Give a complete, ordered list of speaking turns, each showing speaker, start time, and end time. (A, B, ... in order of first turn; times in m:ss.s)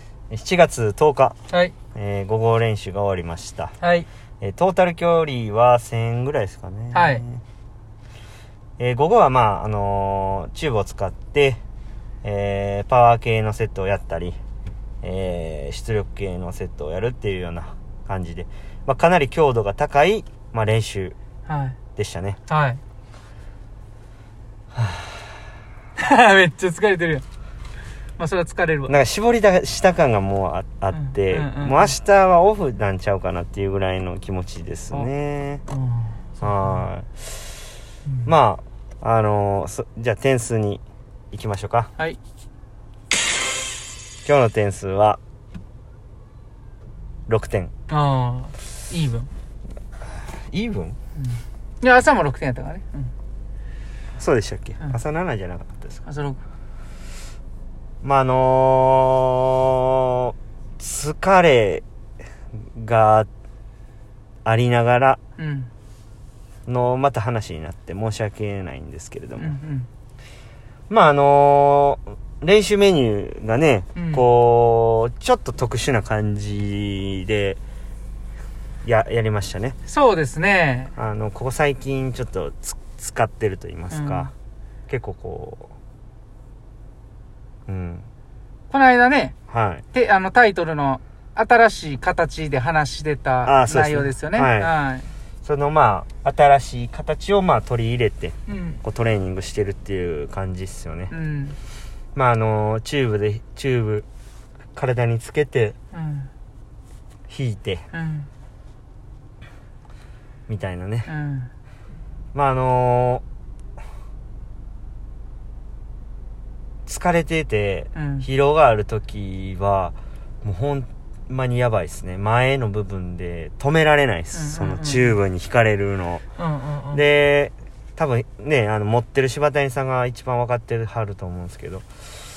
0:00.3-0:01.4 A
0:01.5-0:01.7 B
0:01.9-0:03.7 A
0:03.8-0:04.1 B
0:04.4-0:07.4 A
0:06.9-0:07.2 B
0:08.8-0:11.6 A
0:12.2-0:14.4 A
0:15.0-0:21.2 A
0:21.4-0:21.8 B
0:22.0-0:22.4 A
0:22.5-0:22.8 B
0:24.7-0:25.2 A
0:26.0-0:27.2 B
0:28.2-0:28.9 B
0:28.9-0:35.6 A
0:30.9-0:31.9 B
0:35.7-0:36.8 B
0:36.4-0:37.3 A
0:38.2-0:41.9 A
0:44.2-0:45.2 A
0:47.3-0:47.7 A
0:47.9-0:49.3 B
0:50.0-0:51.0 A
0:51.2-0:53.1 B
0:54.2-0:56.0 A
0:56.0-0:56.4 B
0:58.0-1:01.8 A
1:02.7-1:03.3 A
1:04.4-1:05.2 A
1:05.4-1:05.7 B
1:06.7-1:09.6 A
1:09.4-1:09.9 B
1:10.9-1:17.6 A
1:13.9-1:14.2 B
1:18.8-1:19.8 A
1:19.8-1:20.9 B
1:21.0-1:24.3 A
1:23.9-1:24.3 B
1:24.9-1:25.7 A
1:27.7-1:28.1 A
1:28.7-1:29.3 B
1:29.5-1:29.8 A
1:29.9-1:35.1 B
1:33.4-1:34.7 A
1:35.4-1:41.1 A
1:38.5-1:38.8 B
1:41.1-1:41.6 B
1:42.1-1:44.1 A
1:44.7-1:45.8 A
1:45.9-1:46.3 B
1:47.3-1:47.8 A
1:47.9-1:48.3 B
1:50.5-1:51.1 A
1:51.1-1:51.5 B
1:52.3-1:53.2 A
1:56.8-2:06.2 A
1:57.9-1:58.3 B
2:04.3-2:05.2 B
2:06.4-2:07.0 B
2:06.9-2:11.8 A